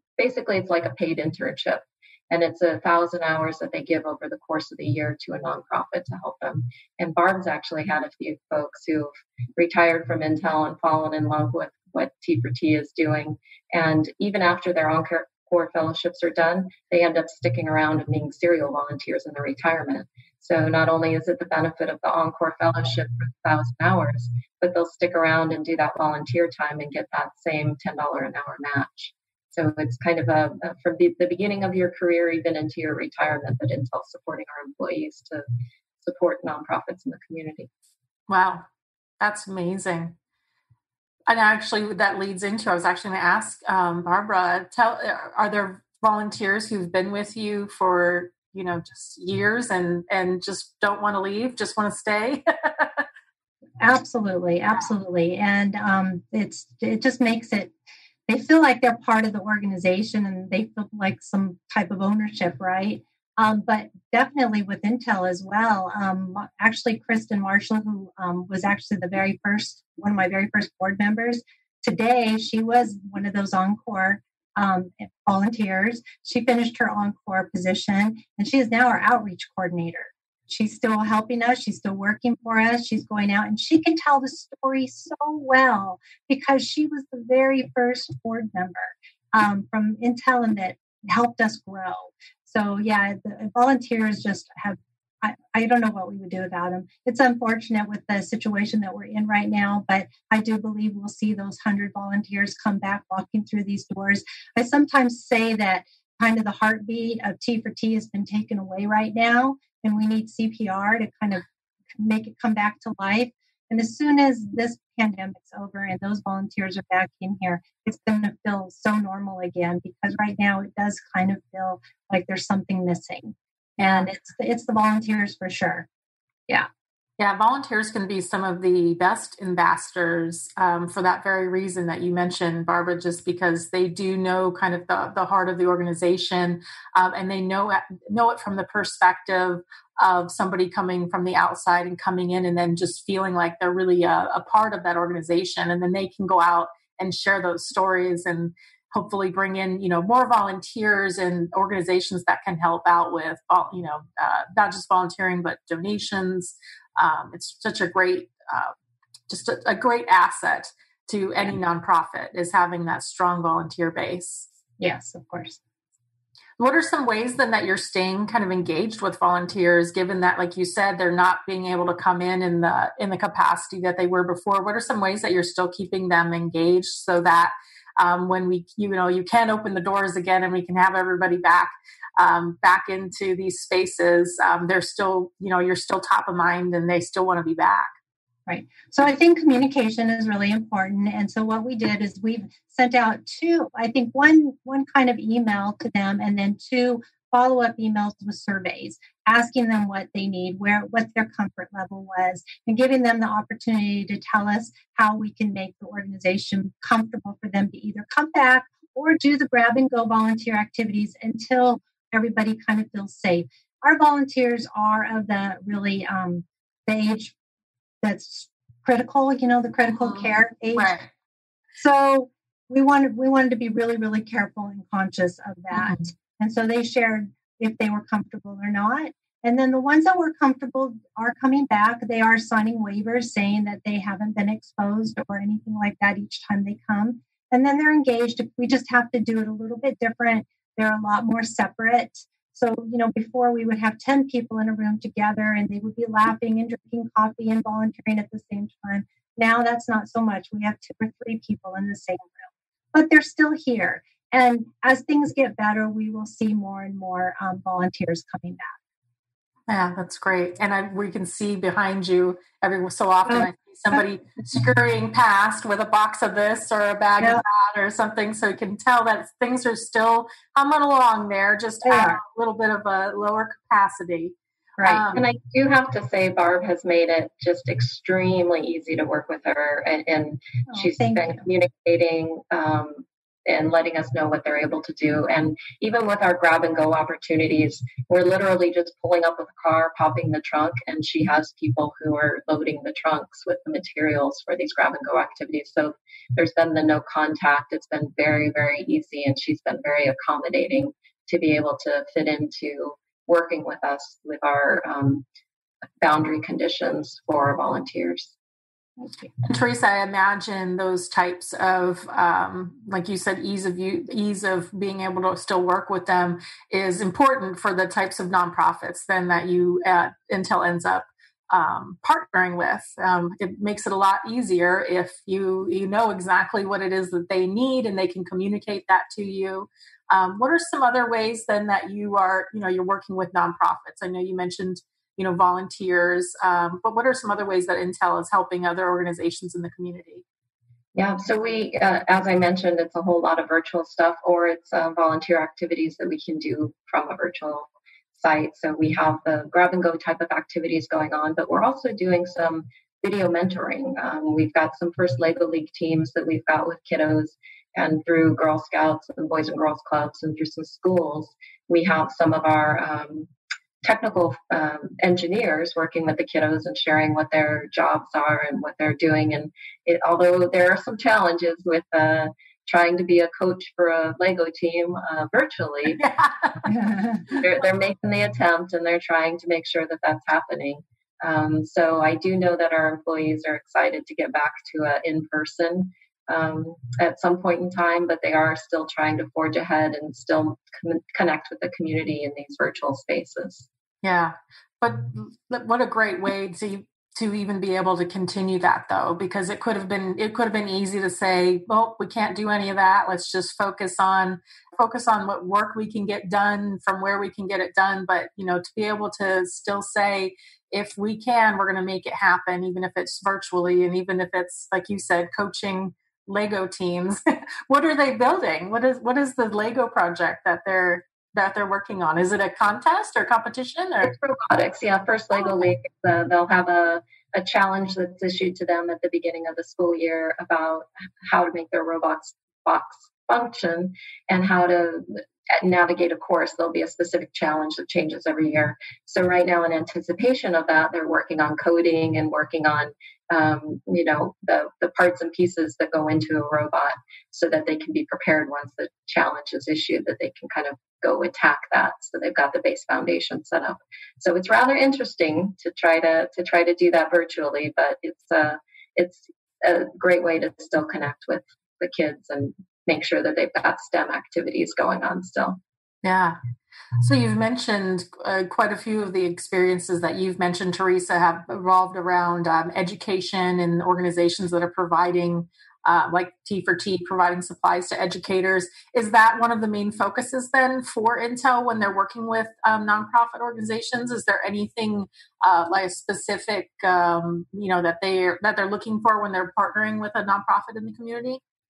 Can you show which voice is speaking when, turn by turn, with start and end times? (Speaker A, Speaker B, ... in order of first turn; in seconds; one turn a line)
Speaker A: 0.2-35.4
Speaker A: 36.0-37.7
Speaker B: 38.3-38.6
Speaker B: 39.2-40.1
Speaker B: 41.3-53.0
Speaker C: 53.8-57.7
Speaker C: 58.3-111.4
Speaker C: 112.0-125.9
Speaker B: 123.8-124.1
Speaker B: 127.2-158.7
Speaker B: 159.3-164.5
Speaker C: 164.8-165.6
Speaker B: 166.6-187.9
Speaker C: 188.5-217.3
Speaker C: 218.0-221.0
Speaker B: 220.0-221.1
Speaker C: 221.8-258.8
Speaker B: 259.7-275.2
Speaker C: 271.8-272.2
Speaker C: 274.8-275.0
Speaker A: 275.1-305.2
Speaker C: 280.7-281.4
Speaker A: 306.0-308.3
Speaker B: 309.4-340.2
Speaker A: 340.9-363.3
Speaker A: 363.8-376.1
Speaker B: 376.0-376.7
Speaker C: 376.7-377.2
Speaker A: 377.2-393.7
Speaker B: 394.0-424.1
Speaker A: 424.0-465.6
Speaker B: 466.0-466.4
Speaker B: 467.0-491.4